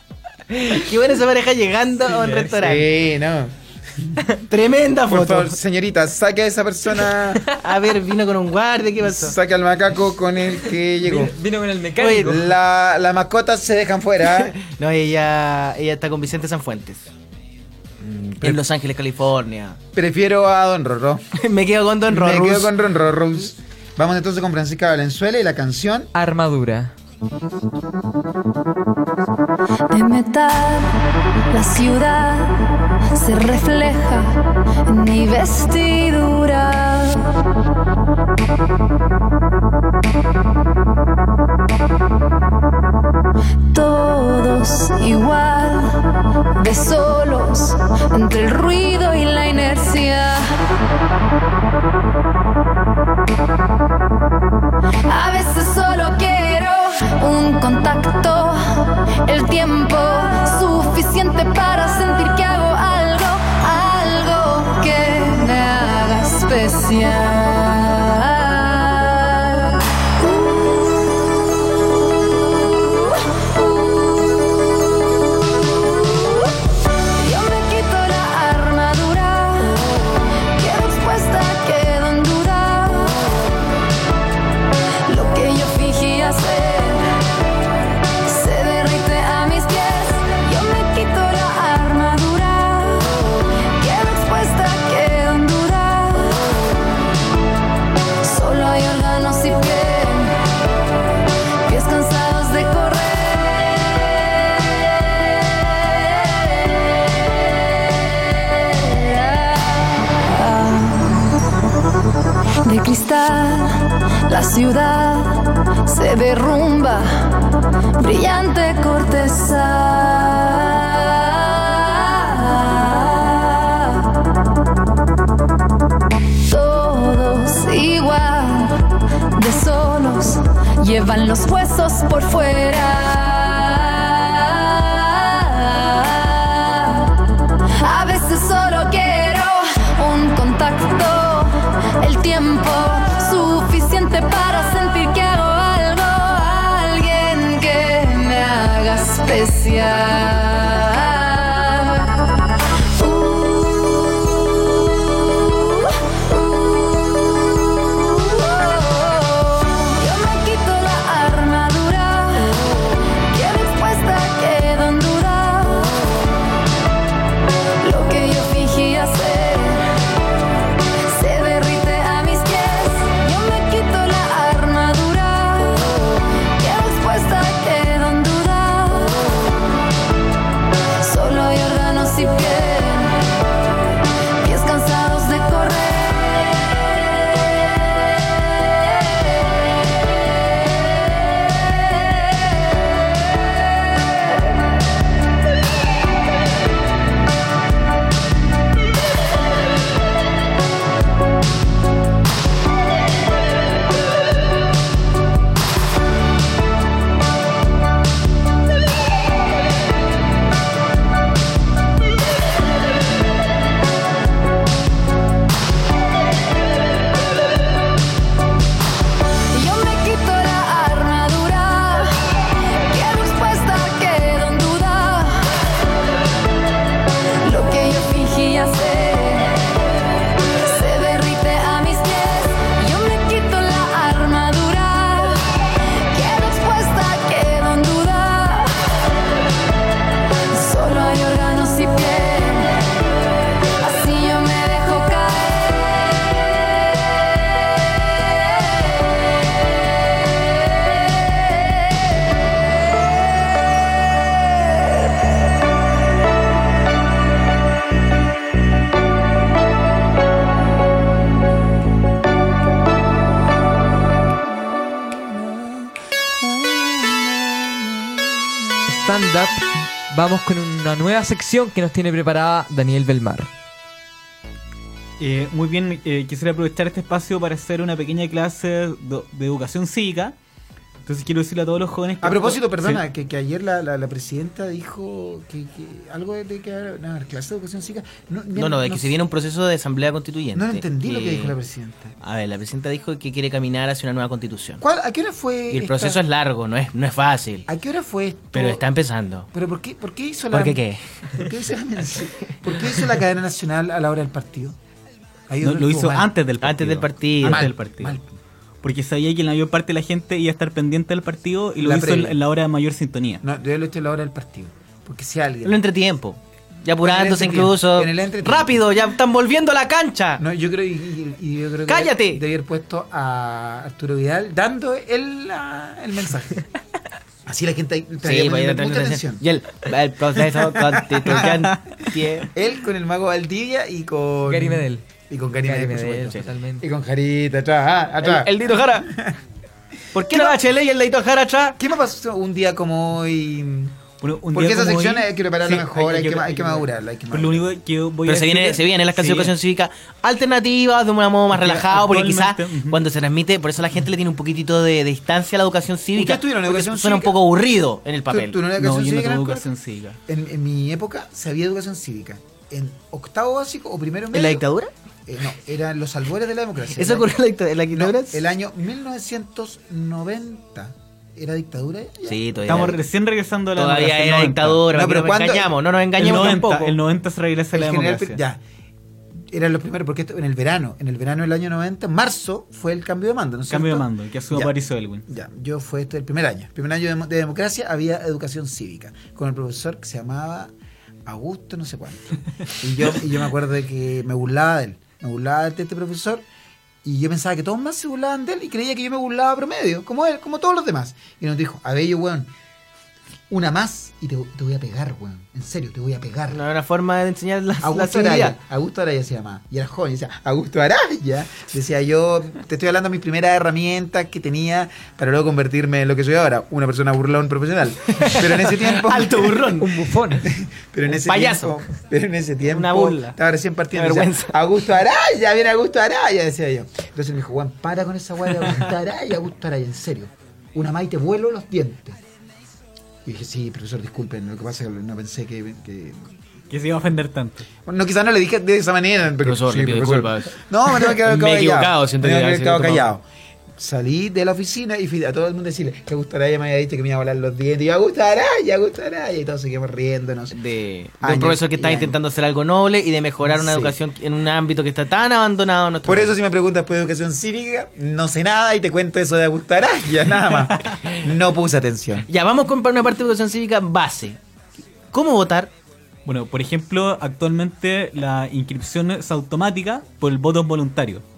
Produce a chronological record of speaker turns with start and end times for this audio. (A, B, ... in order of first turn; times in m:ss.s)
0:00.5-0:02.9 A
0:02.2-0:02.4 B
0:02.6-0:04.2 C
0:04.5-0:05.6 A
0:05.1-0:07.5 C
0:07.6-0:09.4 A
0:09.0-0:11.4 C
0:11.0-0:12.5 B
0:12.0-0:12.4 A
0:12.2-0:14.6 C
0:14.4-0:17.0 A
0:18.0-0:18.6 C
0:18.4-0:19.8 A
0:19.9-0:21.2 C
0:21.4-0:22.7 A
0:22.1-0:26.1 C
0:26.1-0:26.9 B
0:29.9-0:30.9 D
0:31.5-0:32.6 D
0:33.1-0:37.3 D
0:43.7-0:45.9 D
0:46.6-0:50.5 D
0:55.0-1:10.9 D
1:12.8-1:14.0 D
1:15.6-1:16.5 D
1:17.2-1:23.6 D
1:25.0-1:27.1 D
1:28.2-1:36.8 D
1:38.2-1:40.4 D
1:41.6-1:46.8 D
1:47.5-1:51.3 D
1:52.6-1:57.3 D
1:58.0-2:04.2 D
2:06.4-2:08.8 D
2:09.3-2:17.2 D
2:17.8-2:32.3 D
2:33.0-2:33.9 D
2:35.3-2:36.8 D
2:37.9-2:46.3 D
2:47.8-2:49.8 D
2:51.0-2:59.7 D
3:01.0-3:03.2 D
3:04.4-3:06.5 D
3:39.5-3:45.6 D
3:47.4-3:49.6 D
3:50.6-3:55.4 D
3:56.1-3:58.9 D
4:00.5-4:02.8 D
4:03.8-4:06.0 D
4:27.4-4:28.3 C
4:28.9-4:33.5 B
4:35.2-4:40.4 E
4:41.0-4:43.0 E
4:42.2-4:49.2 C
4:48.6-4:51.6 A
4:50.5-4:52.1 C
4:52.2-4:54.8 A
4:54.8-4:56.2 C
4:55.7-4:57.7 A
4:57.7-4:58.8 C
4:58.5-4:59.5 A
4:59.5-5:04.8 C
5:00.5-5:01.3 A
5:05.5-5:06.3 C
5:05.6-5:08.2 E
5:06.6-5:07.7 A
5:07.4-5:08.3 C
5:08.8-5:13.4 E
5:11.8-5:12.4 C
5:13.4-5:15.8 C
5:15.6-5:20.4 A
5:17.0-5:18.8 C
5:20.4-5:26.6 C
5:21.9-5:22.4 A
5:27.4-5:29.4 C
5:28.2-5:32.5 A
5:30.8-5:31.7 C
5:31.3-5:31.8 E
5:32.5-5:39.4 C
5:34.4-5:35.0 B
5:35.6-5:36.8 B
5:38.2-5:39.1 A
5:40.1-5:41.8 A
5:40.2-5:40.5 C
5:41.8-5:44.0 C
5:44.2-5:49.5 E
5:44.5-5:47.7 C
5:48.2-5:58.6 A
5:51.5-5:53.0 E
5:56.2-5:57.4 C
5:58.3-5:59.7 C
5:58.8-6:00.2 E
6:00.3-6:04.6 C
6:04.3-6:04.9 A
6:05.3-6:07.3 C
6:07.0-6:08.4 A
6:07.9-6:12.4 C
6:12.3-6:13.0 A
6:12.7-6:14.8 E
6:13.8-6:16.9 A
6:14.9-6:16.6 C
6:16.2-6:18.4 E
6:17.7-6:18.6 C
6:19.5-6:24.7 C
6:23.7-6:25.2 E
6:25.3-6:30.7 C
6:31.2-6:36.4 C
6:37.0-6:42.5 C
6:43.5-6:46.6 C
6:46.5-6:48.6 A
6:47.8-6:59.8 C
6:58.1-7:00.1 A
6:59.8-7:00.5 B
7:00.4-7:12.2 C
7:01.1-7:01.8 A
7:02.6-7:03.4 A
7:03.9-7:04.6 A
7:13.2-7:16.2 C
7:16.7-7:17.7 E
7:17.8-7:23.2 C
7:19.4-7:23.1 A
7:23.8-7:30.6 C
7:30.5-7:36.3 A
7:31.2-7:32.2 C
7:33.4-7:34.0 C
7:36.0-7:42.2 C
7:42.3-7:44.4 A
7:45.1-7:45.7 A
7:46.2-7:51.2 E